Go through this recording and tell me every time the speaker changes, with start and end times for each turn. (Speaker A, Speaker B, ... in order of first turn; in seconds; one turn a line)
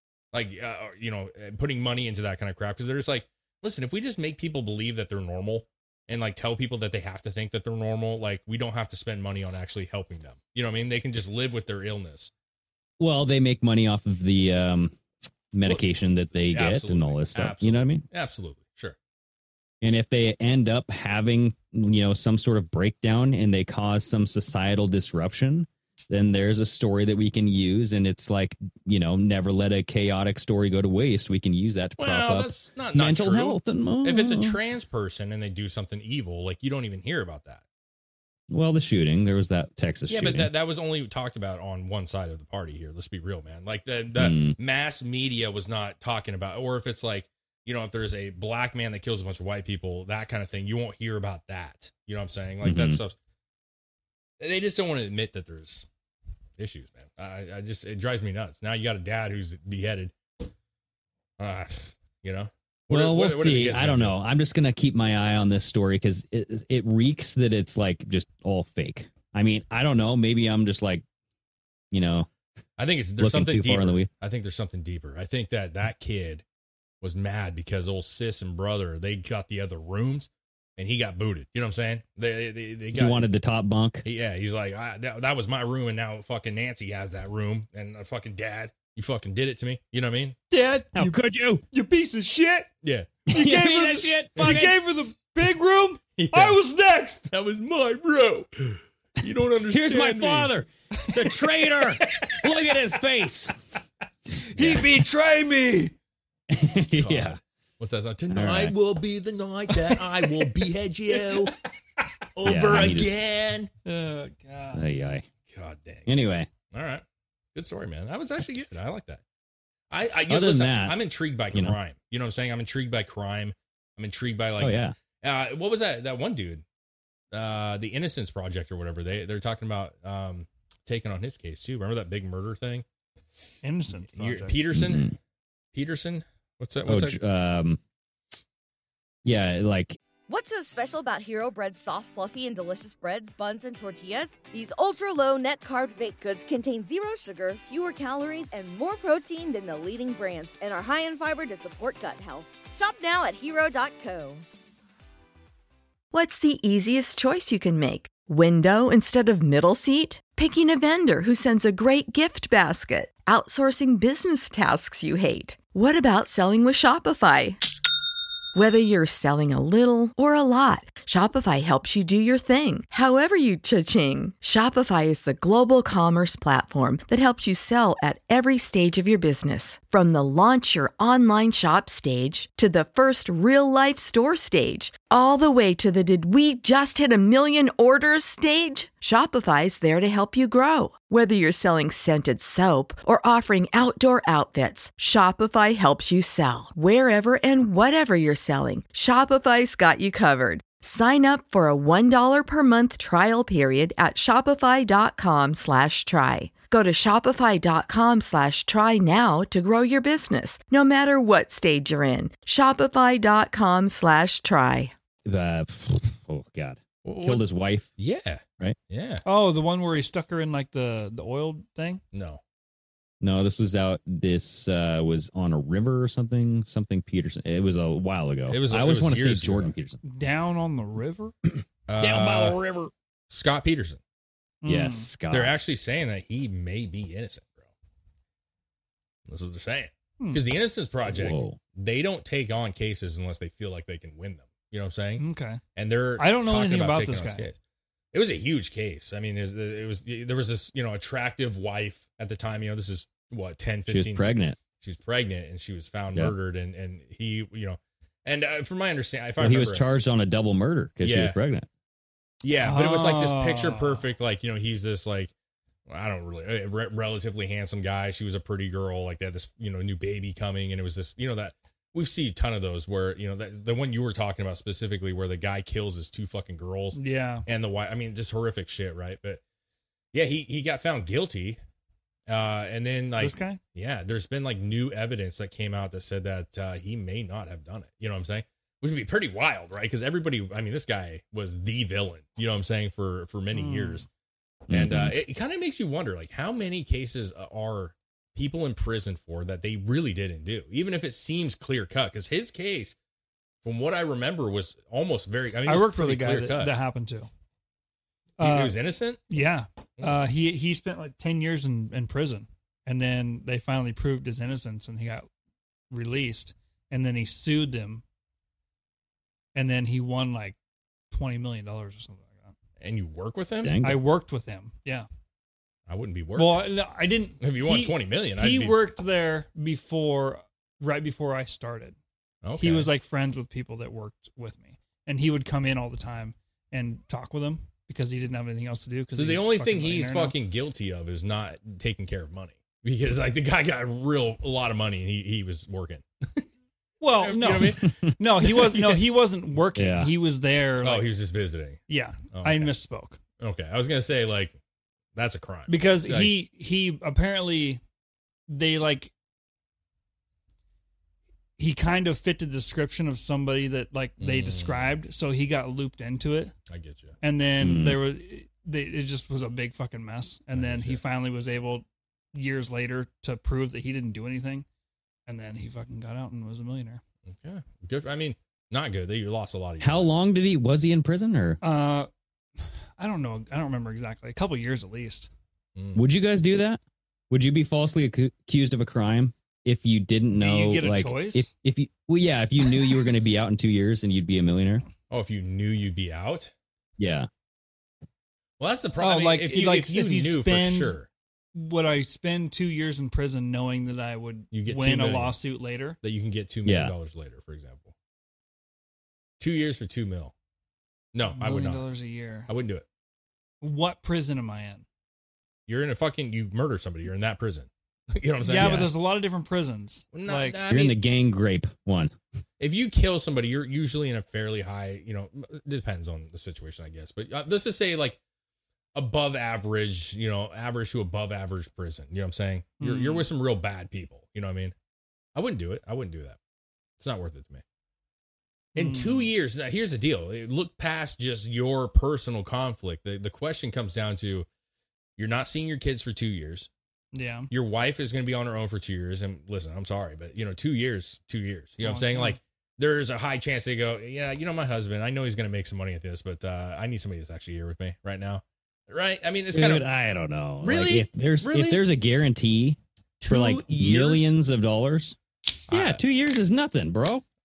Speaker A: 0.3-12.3
Speaker B: 13.0-15.0
Speaker B: 15.5-18.1
Speaker A: 16.4-19.0
Speaker B: 19.8-34.6
Speaker A: 32.0-37.6
Speaker B: 38.5-40.5
Speaker A: 40.1-53.1
Speaker B: 44.2-44.6
Speaker B: 52.6-53.0
Speaker A: 54.4-55.9
Speaker A: 56.6-60.1
Speaker A: 61.4-64.2
Speaker B: 62.9-71.0
Speaker B: 71.9-72.3
Speaker A: 72.8-76.4
Speaker B: 73.2-74.1
Speaker A: 77.0-83.3
Speaker B: 82.9-84.0
Speaker A: 84.0-90.4
Speaker C: 90.5-92.7
Speaker B: 90.9-91.6
Speaker A: 92.8-93.3
Speaker B: 93.3-94.8
Speaker C: 93.3-97.3
Speaker A: 94.4-94.6
Speaker A: 96.2-96.6
Speaker A: 97.3-100.5
Speaker B: 99.7-103.5
Speaker C: 104.4-105.9
Speaker B: 104.6-104.9
Speaker B: 106.5-107.4
Speaker A: 106.9-111.5
Speaker B: 108.3-108.8
Speaker A: 112.3-113.7
Speaker B: 112.4-113.2
Speaker C: 113.9-114.8
Speaker B: 114.7-115.3
Speaker A: 115.5-116.1
Speaker B: 116.1-116.5
Speaker A: 116.7-117.0
Speaker A: 117.5-119.2
Speaker A: 119.9-126.6
Speaker B: 120.3-121.0
Speaker B: 121.5-121.8
Speaker B: 124.6-125.0
Speaker A: 127.3-132.8
Speaker C: 133.6-134.6
Speaker A: 134.1-135.1
Speaker B: 134.7-135.2
Speaker A: 135.7-137.2
Speaker B: 136.9-137.8
Speaker B: 139.2-140.0
Speaker D: 140.3-154.4
Speaker E: 156.1-167.6
Speaker E: 168.6-214.9
Speaker B: 215.2-217.9
Speaker A: 217.1-217.5
Speaker A: 218.0-219.2
Speaker C: 219.2-222.0
Speaker A: 222.1-222.4
Speaker B: 223.2-230.0
Speaker A: 228.5-229.7
Speaker C: 230.0-231.3
Speaker A: 231.9-232.6
Speaker B: 232.0-232.9
Speaker A: 233.3-234.0
Speaker C: 234.6-235.1
Speaker B: 234.7-235.6
Speaker A: 235.3-237.7
Speaker A: 239.3-245.2
Speaker B: 241.1-241.6
Speaker C: 245.2-245.6
Speaker A: 245.8-247.6
Speaker C: 246.2-247.5
Speaker A: 248.1-254.3
Speaker B: 253.9-254.6
Speaker A: 254.8-259.9
Speaker B: 259.4-261.7
Speaker A: 261.0-261.4
Speaker A: 262.4-265.3
Speaker C: 262.6-264.1
Speaker A: 265.9-279.4
Speaker C: 276.9-277.4
Speaker A: 280.1-281.6
Speaker A: 282.3-294.1
Speaker C: 283.2-283.6
Speaker C: 293.5-294.1
Speaker B: 294.7-295.2
Speaker A: 294.7-302.9
Speaker A: 303.6-306.7
Speaker C: 305.7-307.3
Speaker C: 308.4-308.8
Speaker A: 308.4-309.2
Speaker C: 309.3-315.3
Speaker C: 315.9-318.0
Speaker C: 319.6-320.6
Speaker C: 321.1-322.6
Speaker A: 322.8-323.8
Speaker B: 323.6-324.0
Speaker C: 323.8-325.1
Speaker A: 325.9-326.7
Speaker C: 326.4-332.0
Speaker A: 327.4-328.8
Speaker A: 332.4-332.9
Speaker C: 332.6-340.3
Speaker A: 339.1-346.4
Speaker C: 347.0-351.1
Speaker A: 347.2-348.9
Speaker B: 347.9-348.1
Speaker B: 349.8-350.1
Speaker A: 350.8-351.8
Speaker C: 351.9-353.2
Speaker A: 352.3-352.7
Speaker A: 353.4-354.6
Speaker A: 355.1-356.3
Speaker C: 355.7-357.8
Speaker C: 358.5-359.1
Speaker C: 361.6-366.5
Speaker A: 364.2-364.9
Speaker A: 366.7-367.1
Speaker C: 367.2-374.7
Speaker B: 367.6-368.0
Speaker A: 370.5-371.0
Speaker C: 375.3-377.0
Speaker A: 377.3-380.1
Speaker B: 379.8-381.6
Speaker C: 381.6-382.1
Speaker C: 383.0-385.3
Speaker A: 385.8-386.1
Speaker B: 385.9-394.9
Speaker C: 390.4-391.5
Speaker A: 395.1-396.5
Speaker B: 397.0-397.3
Speaker A: 398.6-401.1
Speaker C: 399.0-401.0
Speaker C: 401.6-406.0
Speaker A: 404.5-405.4
Speaker A: 406.0-407.9
Speaker B: 406.6-406.9
Speaker A: 409.4-410.3
Speaker A: 411.1-411.9
Speaker C: 411.3-412.5
Speaker A: 412.5-412.9
Speaker C: 413.6-414.9
Speaker A: 415.7-418.9
Speaker C: 418.4-420.6
Speaker B: 418.5-418.9
Speaker A: 420.1-421.0
Speaker B: 420.7-422.1
Speaker A: 422.6-428.2
Speaker A: 428.9-434.7
Speaker C: 432.8-433.3
Speaker A: 435.4-436.4
Speaker A: 437.0-437.6
Speaker C: 438.8-439.3
Speaker A: 438.8-444.5
Speaker A: 445.2-446.7
Speaker C: 447.1-447.5
Speaker A: 447.5-459.9
Speaker C: 451.8-452.4
Speaker B: 459.5-465.2
Speaker A: 460.6-461.8
Speaker A: 463.2-464.3
Speaker A: 465.7-466.0
Speaker B: 465.7-467.2